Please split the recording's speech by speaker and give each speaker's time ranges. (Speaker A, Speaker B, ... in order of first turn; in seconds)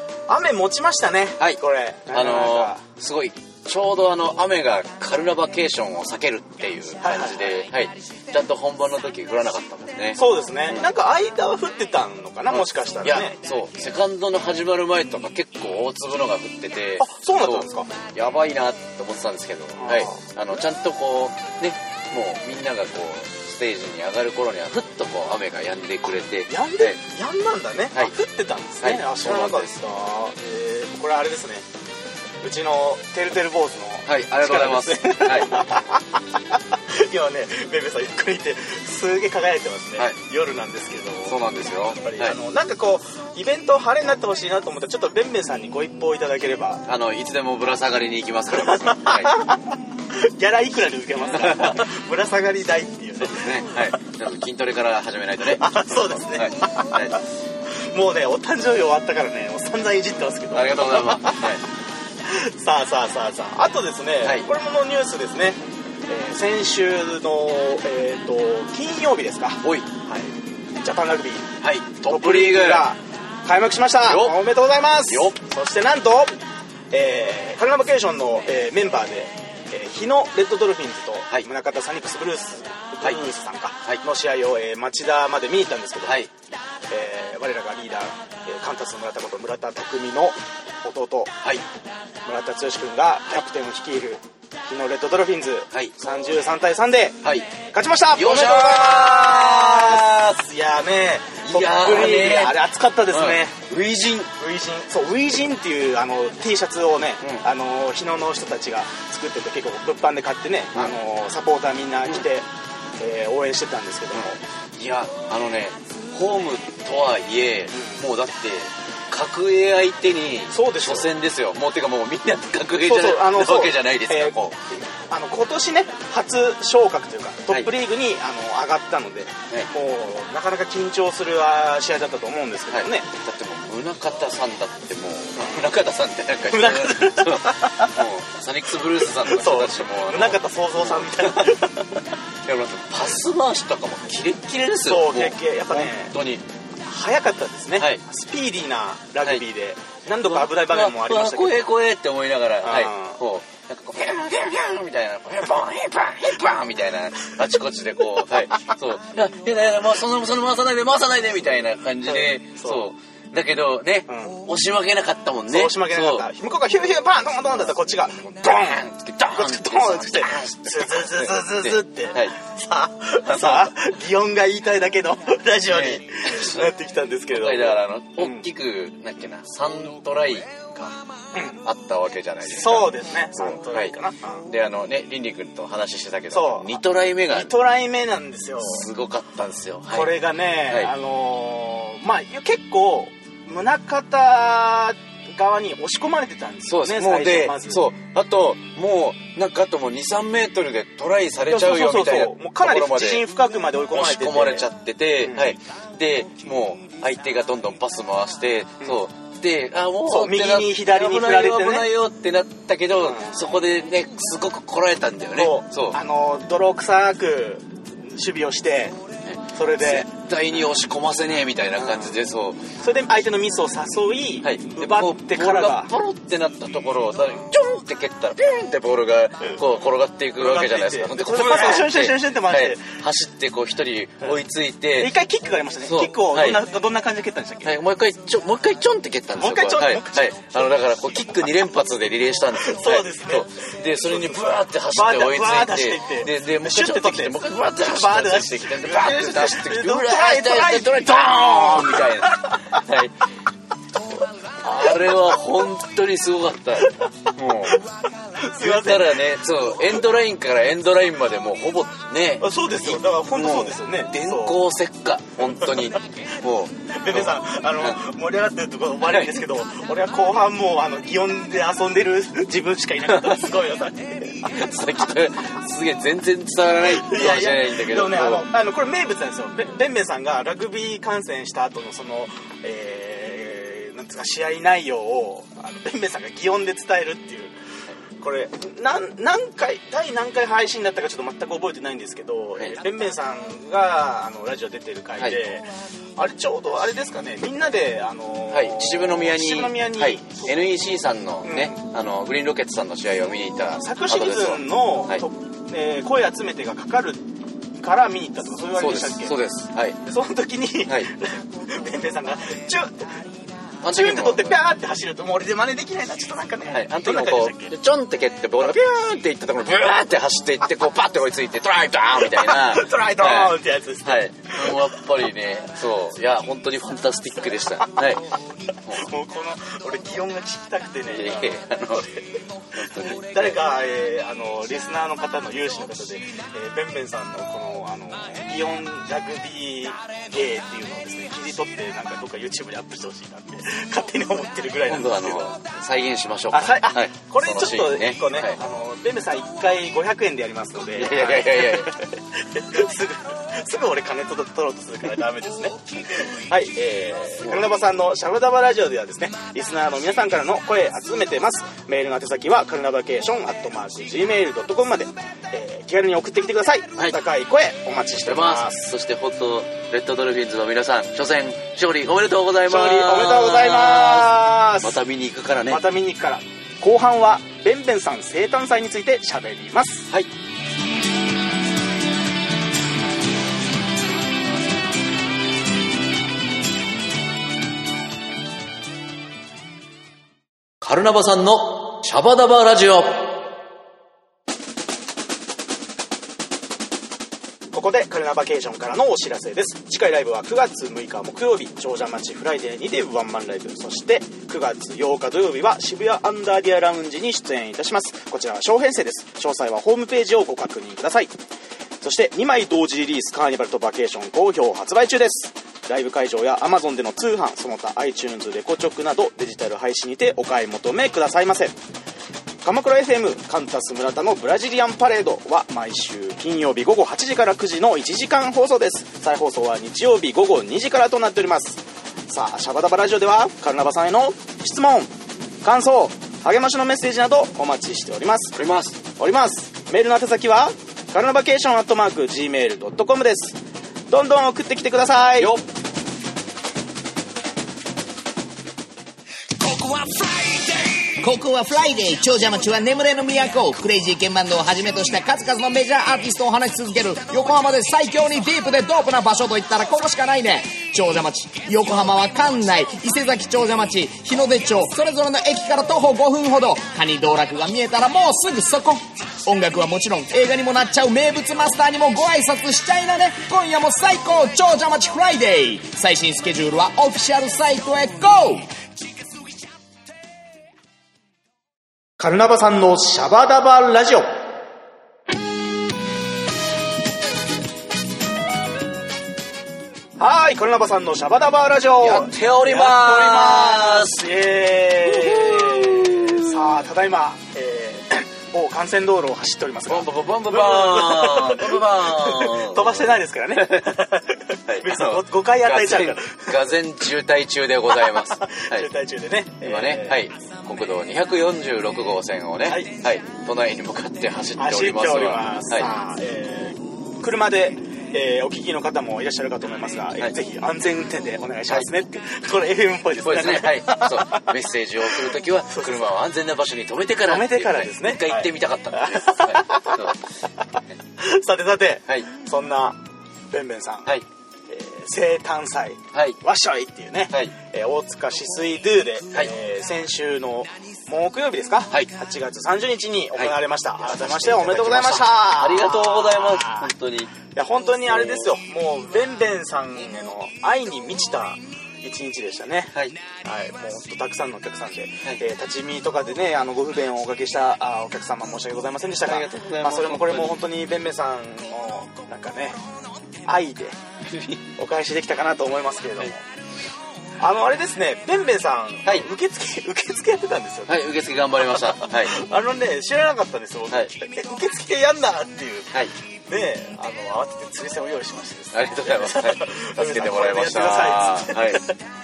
Speaker A: 0.3-2.8, 7.0-7.6, 10.1-13.4, 17.0-17.9, 19.8-20.2, 26.5-31.6, 32.4-46.8, 48.5-54.0, 55.5-61.6, 62.2-71.5, 72.0-76.4, 76.9-86.2, 86.9-91.3, 92.2-103.6, 104.3-112.5, 113.0-114.4, 117.7-118.0, 120.5-121.1, 122.8-133.1, 136.5-138.0, 139.0-142.0, 144.8-146.1, 146.8-151.7, 152.6-153.2, 162.1-162.8, 164.1-164.4, 165.5-178.4, 181.3-181.6, 182.4-184.4, 186.3-188.9, 189.9-197.9, 201.5-204.7, 205.2-205.5, 210.1-211.9, 213.0-213.4, 215.3-218.9, 219.5-220.1, 221.8-222.1, 222.8-225.9, 230.4-232.9, 235.0-237.8, 239.4-240.5, 242.6-252.7, 256.8-257.1, 258.4-259.2, 262.4-264.6, 265.4-266.0, 266.9-274.7, 276.8-287.5, 288.2-300.7, 301.4-301.8, 303.8-307.2, 307.8-309.4, 310.0-313.1, 313.9-317.7, 322.2-324.9, 328.9-332.2, 333.0-345.5, 346.5-368.9, 372.6-375.0, 375.7-380.1, 397.7-411.3, 412.0-421.7, 422.6-435.1, 435.6-443.6, 444.1-445.5, 482.2-484.3, 490.2-506.7, 507.9-510.2, 512.6-512.9, 514.6-524.5, 525.1-526.1, 527.2-530.2, 531.2-533.0, 533.5-534.1, 534.7-546.9, 547.5-562.8, 563.4-564.0, 564.8-566.4, 567.4-571.0, 571.6-582.0
Speaker B: 1.4-10.9, 12.5-27.0, 28.8-29.7, 34.0-35.6, 41.2-42.4, 46.9-49.4, 51.3-51.9, 53.2-57.2, 60.5-61.6, 64.2-64.5, 69.6-69.9, 71.6-72.9, 74.0-74.4, 75.0-75.3, 86.0-86.3, 97.2-97.5, 98.1-100.4, 101.4-104.3, 114.1-124.8, 132.7-141.6, 142.4-146.4, 150.2-166.2, 168.3-172.3, 173.2-173.8, 175.7-176.8, 177.3-181.0, 181.6-187.5, 188.6-190.9, 196.7-203.3, 203.9-216.0, 219.2-222.7, 224.4-235.1, 235.8-236.6, 237.6-253.2, 254.6-257.8, 258.6-268.0, 269.1-269.5, 274.4-278.5, 298.5-305.2, 308.8-310.0, 313.8-314.6, 316.7-328.3, 331.1-332.1, 332.7-333.6, 344.9-348.6, 350.9-352.0, 368.2-375.9, 390.8-393.4, 438.6-439.0, 445.4-445.6, 492.0-494.3, 495.0-496.8, 499.9-504.0, 504.7-508.9, 509.6-515.9, 523.2-530.2, 536.1-536.4, 543.4-547.3, 548.0-548.5, 559.2-560.6, 564.3-564.6, 570.9-572.4, 578.7-581.9
Speaker C: 449.6-478.7